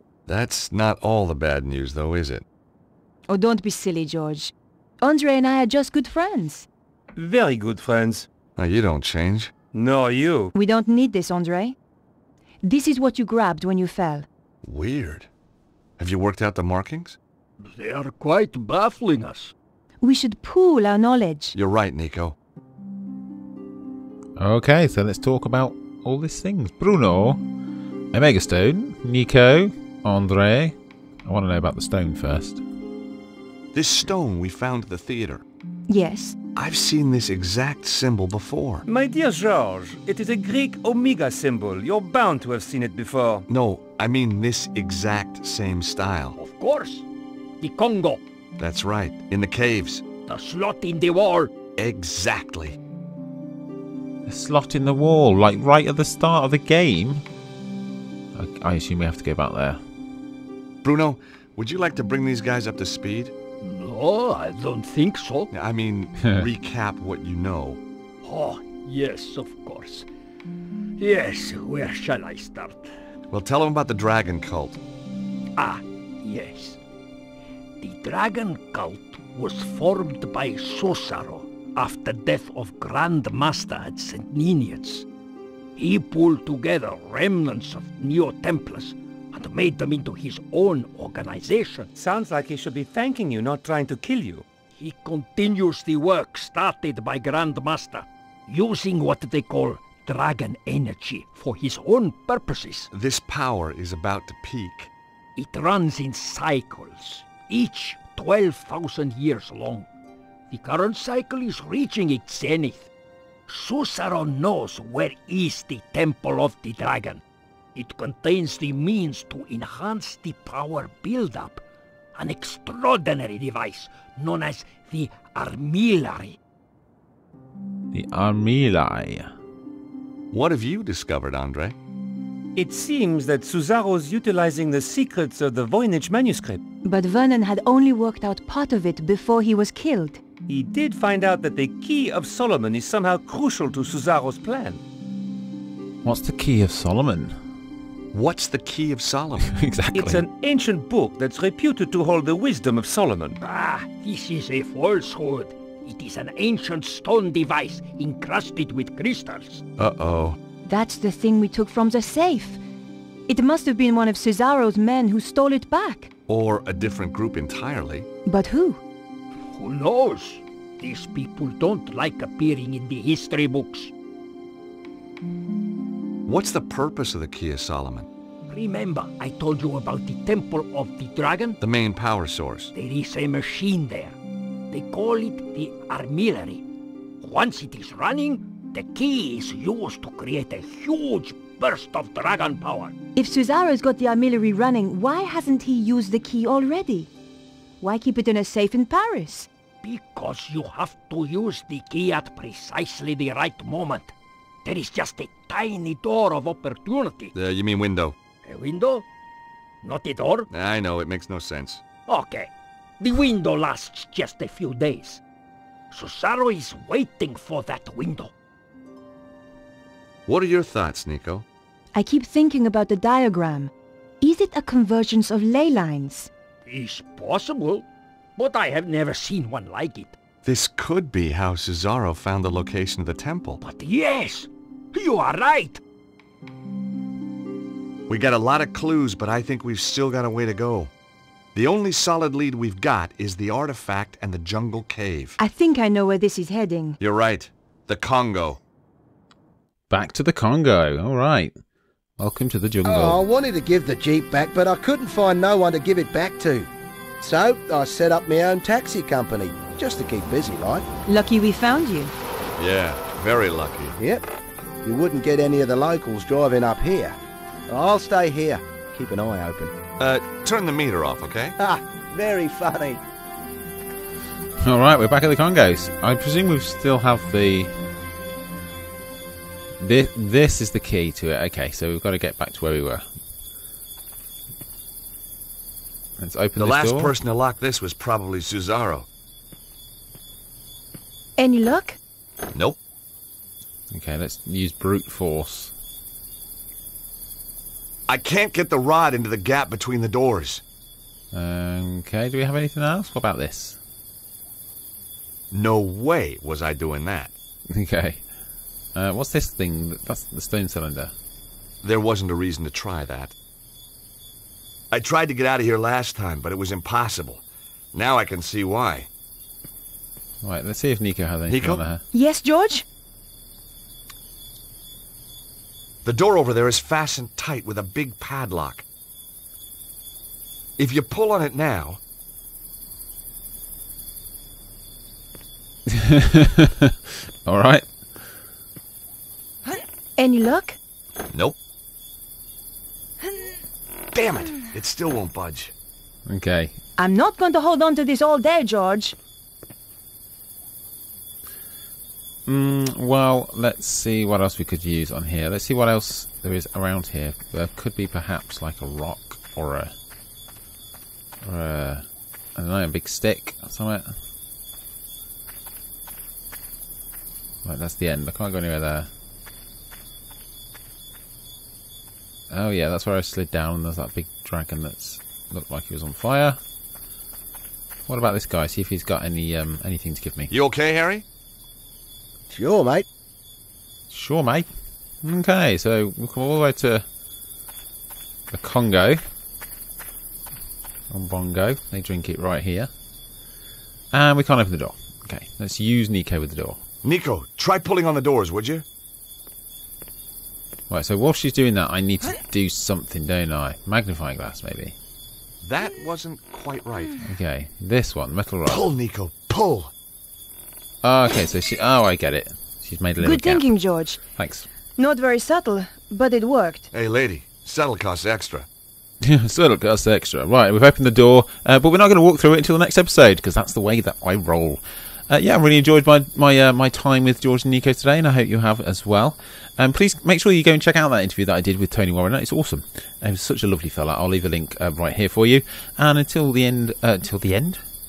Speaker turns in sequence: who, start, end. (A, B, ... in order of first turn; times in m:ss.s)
0:00.3-0:02.4 A
0:03.3-0:06.7 B
0:07.2-0:08.3 C
0:08.6-0:09.5 A
0:09.7-0:10.5 C
0:10.5-0:11.8 B
0:12.6-0:14.2 B
0:14.6-0:15.3 A
0:16.0-0:17.2 A
0:17.6-0:19.5 D
0:20.0-0:21.6 B
0:21.5-0:22.4 A
0:24.4-0:27.4 E
0:28.1-0:32.6 E
0:33.7-0:35.4 A
0:35.9-0:36.4 B
0:36.6-0:38.8 A
0:38.8-0:43.4 C
0:43.5-0:46.4 A
0:46.4-0:47.1 D
0:47.6-0:48.2 D
0:48.6-0:50.0 A
0:50.3-0:51.5 D
0:51.8-0:52.8 A
0:54.2-0:57.2 E
0:58.3-0:59.8 E
1:00.8-1:03.3 A
1:03.6-1:05.5 D
1:05.5-1:07.8 A
1:08.2-1:10.1 D
1:11.0-1:12.9 D
1:13.3-1:14.8 A
1:15.6-1:16.8 D
1:17.8-1:25.1 D
1:25.8-1:31.9 D
1:32.0-1:34.4 C
1:34.8-1:42.9 D
1:42.9-1:44.9 A
1:45.4-1:49.9 D
1:50.5-1:52.9 D
1:53.5-1:57.2 D
1:57.7-2:01.6 D
2:02.1-2:06.4 D
2:07.9-2:09.3 E
2:10.3-2:11.8 A
2:12.6-2:16.6 C
2:16.8-2:20.2 B
2:20.5-2:24.8 C
2:26.0-2:27.4 E
2:28.1-2:29.5 A
2:29.5-2:30.2 E
2:29.9-2:33.4 C
2:33.4-2:39.6 D
2:39.8-2:40.4 A
2:40.6-2:42.6 B
2:43.3-2:46.1 B
2:46.3-2:48.1 A
2:48.2-2:48.8 B
2:49.5-2:53.9 D
2:56.2-2:58.1 A
2:58.5-3:01.6 D
3:01.6-3:02.7 A
3:02.7-3:04.2 D
3:04.7-3:06.6 D
3:07.2-3:12.9 D
3:13.2-3:17.1 B
3:17.8-3:19.5 B
3:19.8-3:24.1 D
3:24.6-3:27.3 D
3:27.3-3:28.2 A
3:28.4-3:29.0 D
3:29.8-3:30.5 D
3:30.5-3:31.8 A
3:32.1-3:35.2 D
3:35.9-3:38.3 D
3:40.2-3:41.4 A
3:41.9-3:46.3 B
3:46.6-3:47.8 D
3:48.4-3:50.1 D
3:50.4-3:53.6 A
3:53.6-3:55.8 D
3:58.1-4:00.9 A
4:01.5-4:05.4 A
4:05.4-4:07.0 B
4:07.0-4:08.6 A
4:09.9-4:11.6 E
4:12.2-4:13.2 E
4:12.8-4:16.7 F
4:17.2-4:20.8 F
4:21.0-4:22.1 B
4:22.6-4:24.0 A
4:24.0-4:24.2 F
4:24.8-4:27.2 F
4:27.7-4:29.7 F
4:30.0-4:31.5 A
4:31.6-4:33.0 F
4:34.6-4:37.7 E
4:39.8-4:43.0 E
4:46.2-4:47.1 E
4:46.6-4:49.1 A
4:51.4-4:52.0 B
4:52.5-4:52.8 A
4:53.9-4:55.7 E
4:58.1-5:00.6 A
5:01.3-5:03.8 E
5:05.5-5:07.3 A
5:07.7-5:08.2 E
5:08.9-5:11.1 E
5:11.8-5:13.3 A
5:14.9-5:19.1 A
5:20.4-5:22.0 E
5:21.5-5:21.8 A
5:22.1-5:22.8 B
5:26.0-5:28.8 A
5:30.8-5:32.0 A
5:35.9-5:38.3 E
5:40.2-5:40.8 B
5:41.3-5:41.6 A
5:44.1-5:45.7 A
5:46.3-5:46.7 E
5:47.0-5:49.1 B
5:52.4-5:59.9 E
6:01.4-6:04.2 E
6:07.6-6:09.1 E
6:12.5-6:16.6 E
6:18.1-6:20.5 E
6:20.5-6:21.2 A
6:22.5-6:23.0 F
6:24.1-6:24.7 E
6:25.2-6:27.0 E
6:28.5-6:29.2 E
6:31.1-6:32.9 E
6:34.1-6:36.8 E
6:37.0-6:38.8 A
6:40.9-6:44.9 E
6:45.6-6:47.2 A
6:47.2-6:48.8 E
6:48.6-6:49.9 A
6:51.0-6:53.7 E
6:53.2-6:54.2 B
6:54.2-6:54.7 E
6:55.0-6:56.9 B
6:56.9-6:58.7 A
6:59.2-7:17.8 E